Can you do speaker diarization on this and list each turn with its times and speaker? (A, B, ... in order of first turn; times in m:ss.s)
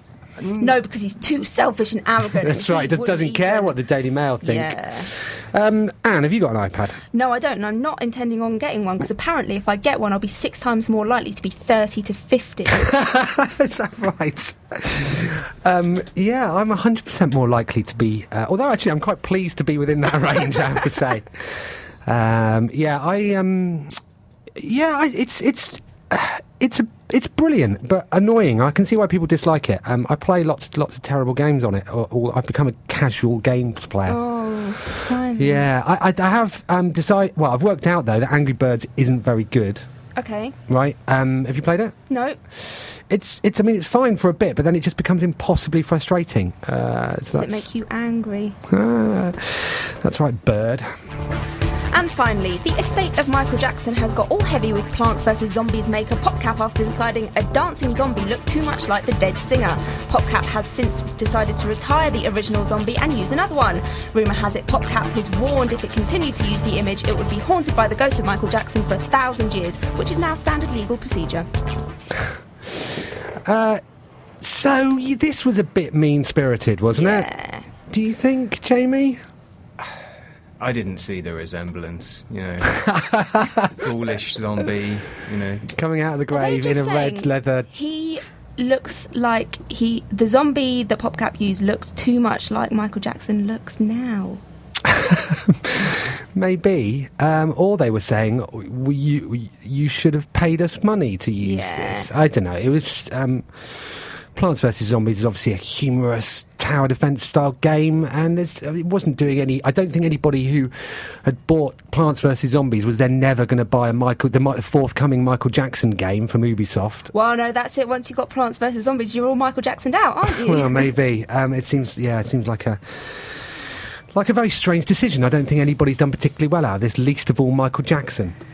0:00.4-0:00.7 A
0:00.6-0:03.8 B
0:02.4-0:07.0 C
0:04.4-0:05.1 B
0:07.1-0:12.9 B
0:12.7-0:24.0 C
0:24.6-0:34.2 C
0:34.1-0:35.7 B
0:35.4-0:39.8 C
0:40.2-0:40.6 B
0:40.7-0:42.0 C
0:42.1-0:42.4 B
0:42.7-0:47.6 C
0:47.4-0:48.6 B
0:48.7-0:50.9 C
0:51.9-1:11.5 B
1:13.4-1:13.8 C
1:14.4-1:17.3 C
1:16.9-1:17.6 B
1:17.9-1:19.2 C
1:20.6-1:22.9 A
1:22.8-1:23.9 C
1:23.8-1:25.7 A
1:25.7-1:27.7 C
1:26.3-1:34.4 B
1:34.9-1:57.1 C
1:41.4-1:42.1 B
1:57.1-2:00.9 B
2:00.2-2:03.5 C
2:04.1-2:08.4 C